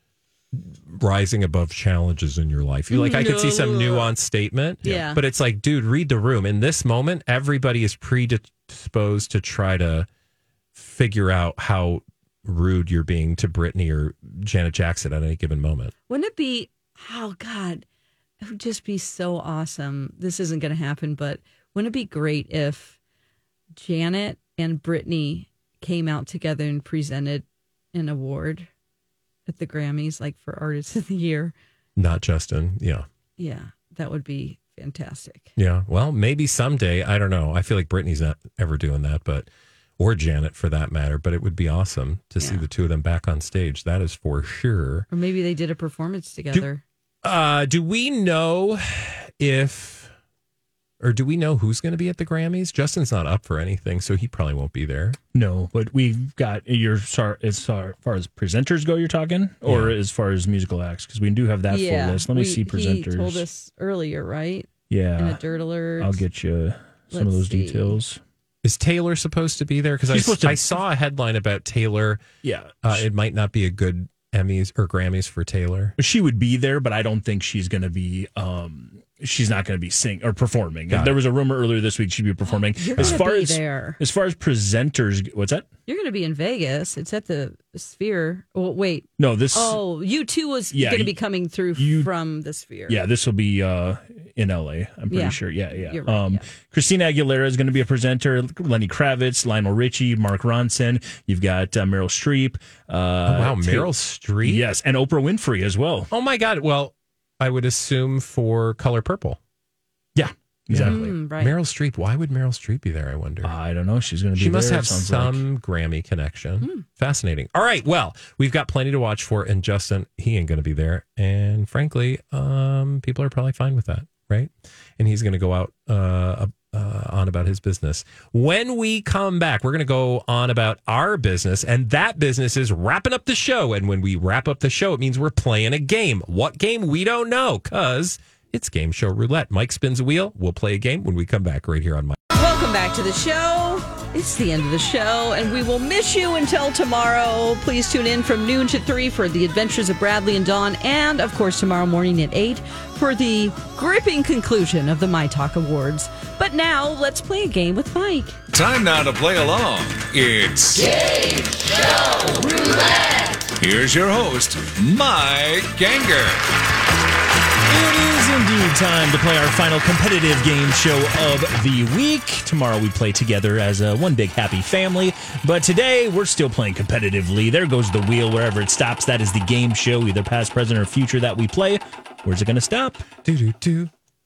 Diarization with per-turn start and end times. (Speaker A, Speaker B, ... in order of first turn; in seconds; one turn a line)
Speaker A: 0.5-10.1
Speaker B: 2.9-4.1
Speaker B: 4.8-5.2
Speaker A: 10.7-15.9
Speaker B: 16.1-17.8
Speaker B: 18.4-23.0
Speaker B: 23.7-28.7
Speaker B: 29.5-31.5
Speaker A: 31.9-33.0
Speaker B: 33.4-35.5
Speaker A: 35.6-39.5
Speaker A: 40.0-45.1
Speaker B: 45.1-46.8
Speaker A: 47.2-50.1
Speaker A: 51.0-55.2
Speaker C: 55.3-63.5
Speaker A: 59.6-60.0
Speaker B: 61.7-66.2
Speaker C: 64.9-65.4
Speaker C: 66.0-68.2
Speaker B: 67.1-68.0
Speaker A: 68.6-72.2
Speaker C: 70.1-70.8
Speaker C: 72.4-73.0
Speaker A: 72.8-75.9
Speaker C: 76.0-85.7
Speaker A: 80.9-81.2
Speaker B: 82.4-84.0
Speaker B: 85.9-93.0
Speaker C: 89.2-89.8
Speaker C: 90.7-91.1
Speaker C: 91.8-92.1
Speaker C: 92.9-103.9
Speaker B: 95.1-96.5
Speaker A: 103.3-104.7
Speaker C: 104.4-106.1
Speaker A: 106.1-109.4
Speaker C: 110.1-111.1
Speaker A: 110.7-113.5
Speaker B: 110.9-111.5
Speaker C: 113.4-115.4
Speaker A: 114.3-142.2
Speaker B: 142.3-158.4
Speaker D: 158.5-161.3
Speaker D: 163.6-166.4
Speaker C: 167.7-183.1
Speaker A: 183.2-183.9